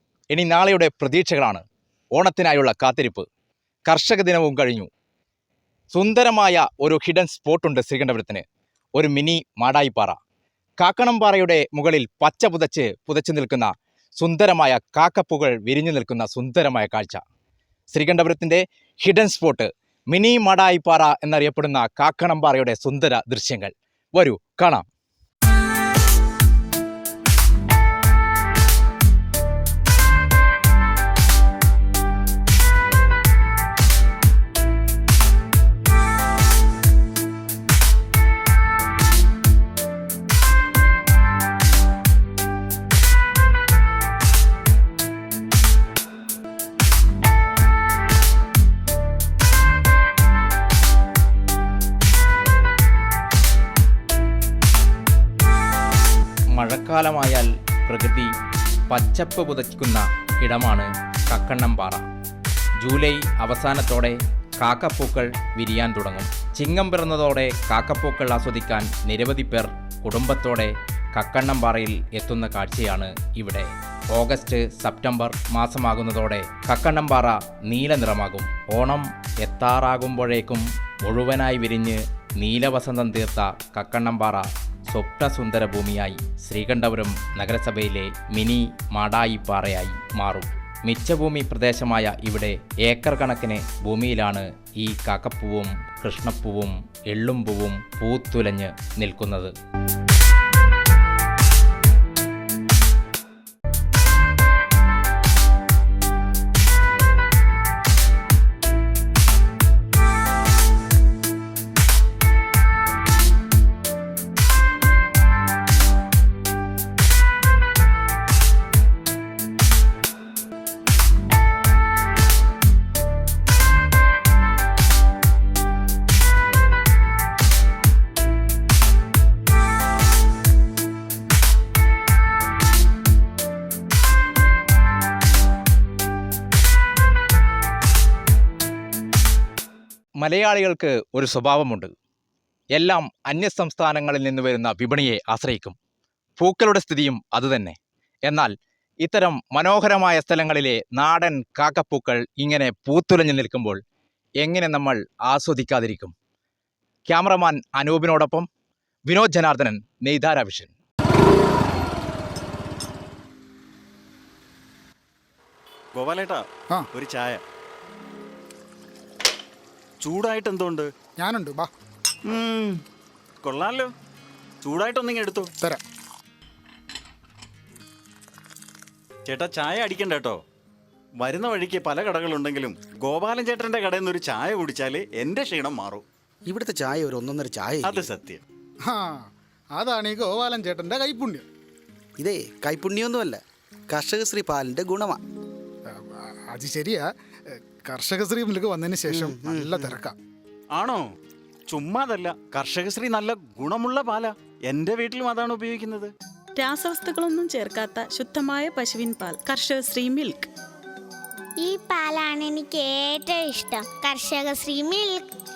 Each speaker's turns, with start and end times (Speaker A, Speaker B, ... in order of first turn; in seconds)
Speaker A: 0.3-1.6, 2.1-3.3, 3.9-4.9, 5.9-8.4, 8.9-10.2, 10.8-17.2, 17.9-24.9, 56.5-58.3, 58.9-62.1, 62.8-99.5, 140.2-141.9, 142.7-145.8, 146.4-153.8, 154.4-156.1, 157.1-158.5, 159.1-160.7
Speaker B: 165.9-166.4, 166.9-167.4, 170.0-170.9, 172.3-172.8, 173.4-173.9, 174.6-175.5, 179.3-180.4, 181.2-186.0, 187.8-188.4, 200.7-201.0, 201.7-206.1
Speaker C: 171.2-171.7, 188.9-191.4, 195.9-200.2
Speaker D: 186.5-188.1, 192.2-195.2, 199.1-200.0
Speaker E: 206.6-210.5
Speaker F: 211.6-215.3